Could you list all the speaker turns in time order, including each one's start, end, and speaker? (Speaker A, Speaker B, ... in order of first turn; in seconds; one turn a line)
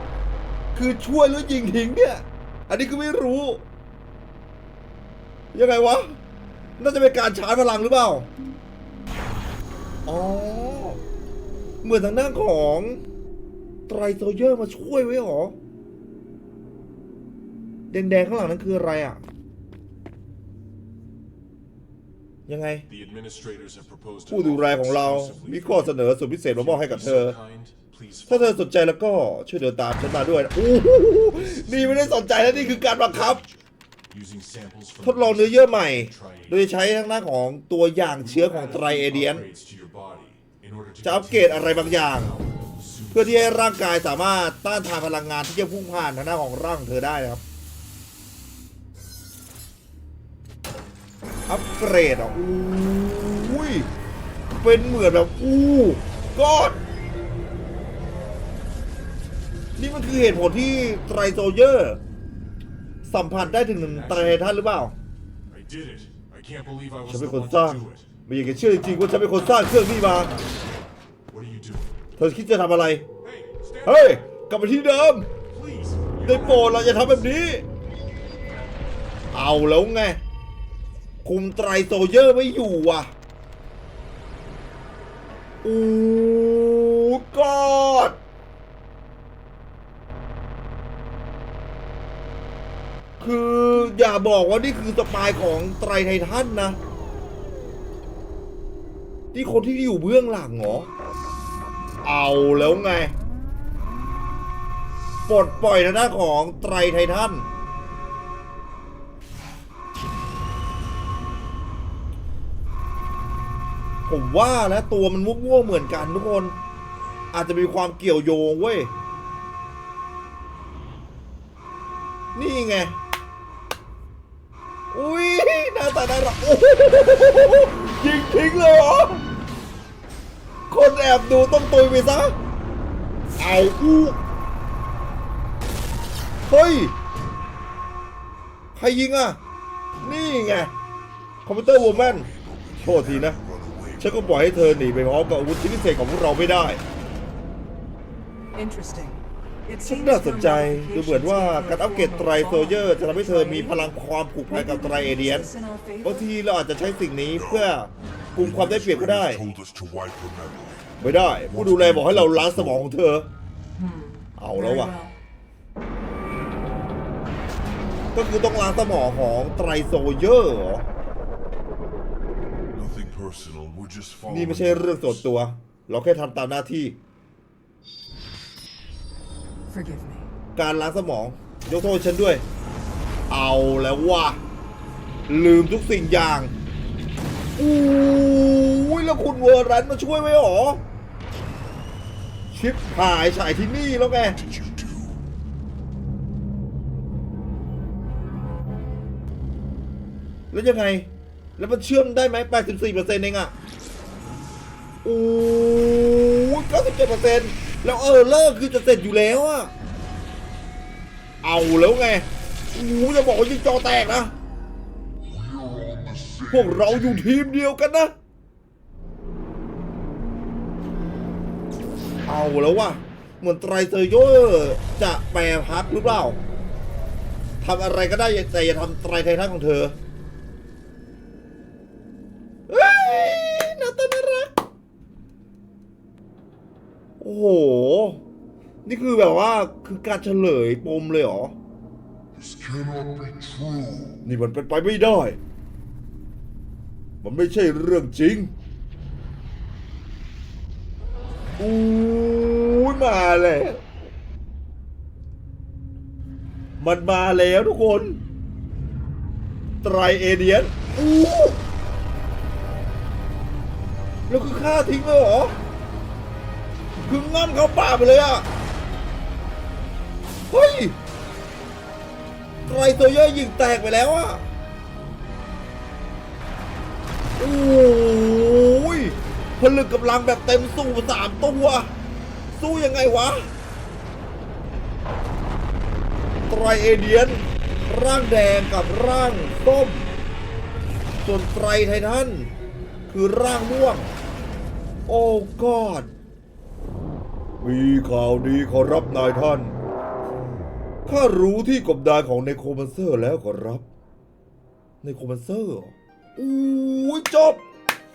Speaker A: 0.7-3.6
Speaker A: 5.5-6.2
Speaker A: 6.8-8.3
Speaker A: 10.1-11.0
Speaker A: 11.8-13.0
Speaker A: 13.9-15.6
Speaker A: 17.9-19.2
Speaker A: 22.5-22.9
Speaker B: 22.9-26.0
Speaker A: 24.3-27.4
Speaker B: 26.5-28.6
Speaker A: 28.3-33.4
Speaker B: 31.3-36.7
Speaker A: 35.0-39.5
Speaker B: 38.2-43.7
Speaker A: 41.0-42.3
Speaker A: 43.1-47.4
Speaker A: 51.5-53.9
Speaker A: 54.6-56.8
Speaker A: 59.8-62.0
Speaker A: 63.0-65.0
Speaker B: 63.4-64.5
Speaker B: 65.5-68.1
Speaker A: 67.1-70.3
Speaker B: 71.3-71.9
Speaker A: 72.2-73.0
Speaker B: 73.2-74.2
Speaker A: 73.8-75.3
Speaker B: 75.5-77.3
Speaker A: 76.2-77.6
Speaker A: 79.3-80.2
Speaker A: 81.2-83.1
Speaker A: 85.6-88.2
Speaker A: 93.2-96.8
Speaker A: 99.3-100.9
Speaker A: 102.0-103.1
Speaker A: 105.3-107.5
Speaker A: 114.1-116.6
Speaker A: 117.3-118.9
Speaker A: 122.3-123.0
Speaker A: 124.9-129.2
Speaker A: 130.7-132.3
Speaker A: 133.4-134.2
Speaker A: 136.5-136.9
Speaker A: 138.8-139.4
Speaker A: 140.0-140.7
Speaker A: 141.4-142.3
Speaker C: 141.8-144.6
Speaker A: 142.8-143.4
Speaker A: 144.0-146.8
Speaker D: 148.6-154.0
Speaker A: 149.8-155.5
Speaker D: 154.5-156.3
Speaker A: 156.0-159.4
Speaker C: 157.4-157.7
Speaker C: 158.4-160.9
Speaker A: 161.0-163.3
Speaker C: 161.5-162.8
Speaker D: 163.8-165.2
Speaker A: 164.4-164.9
Speaker A: 168.1-170.9
Speaker C: 172.7-175.1
Speaker A: 174.3-177.0
Speaker D: 179.7-180.3
Speaker A: 180.6-182.4
Speaker A: 183.3-184.4
Speaker A: 185.3-186.5
Speaker A: 187.6-190.8
Speaker A: 192.5-194.4
Speaker A: 200.5-203.5
Speaker A: 205.0-209.7
Speaker A: 211.4-214.3
Speaker A: 216.4-218.1
Speaker A: 222.3-226.4
Speaker A: 227.6-230.0
Speaker A: 232.7-234.6
Speaker A: 237.2-238.2
Speaker A: 238.8-241.5
Speaker C: 242.7-243.5
Speaker A: 244.2-245.4
Speaker A: 247.2-248.5
Speaker A: 251.6-253.8
Speaker A: 256.8-258.2
Speaker A: 259.8-261.6
Speaker A: 264.3-265.6
Speaker A: 267.0-268.5
Speaker A: 270.5-271.0
Speaker A: 272.7-274.4
Speaker A: 277.4-281.9
Speaker A: 282.5-283.5
Speaker A: 286.5-290.1
Speaker A: 291.2-292.5
Speaker A: 293.1-294.1
Speaker A: 295.1-296.1
Speaker A: 297.6-299.8
Speaker A: 301.1-303.9
Speaker A: 305.0-307.6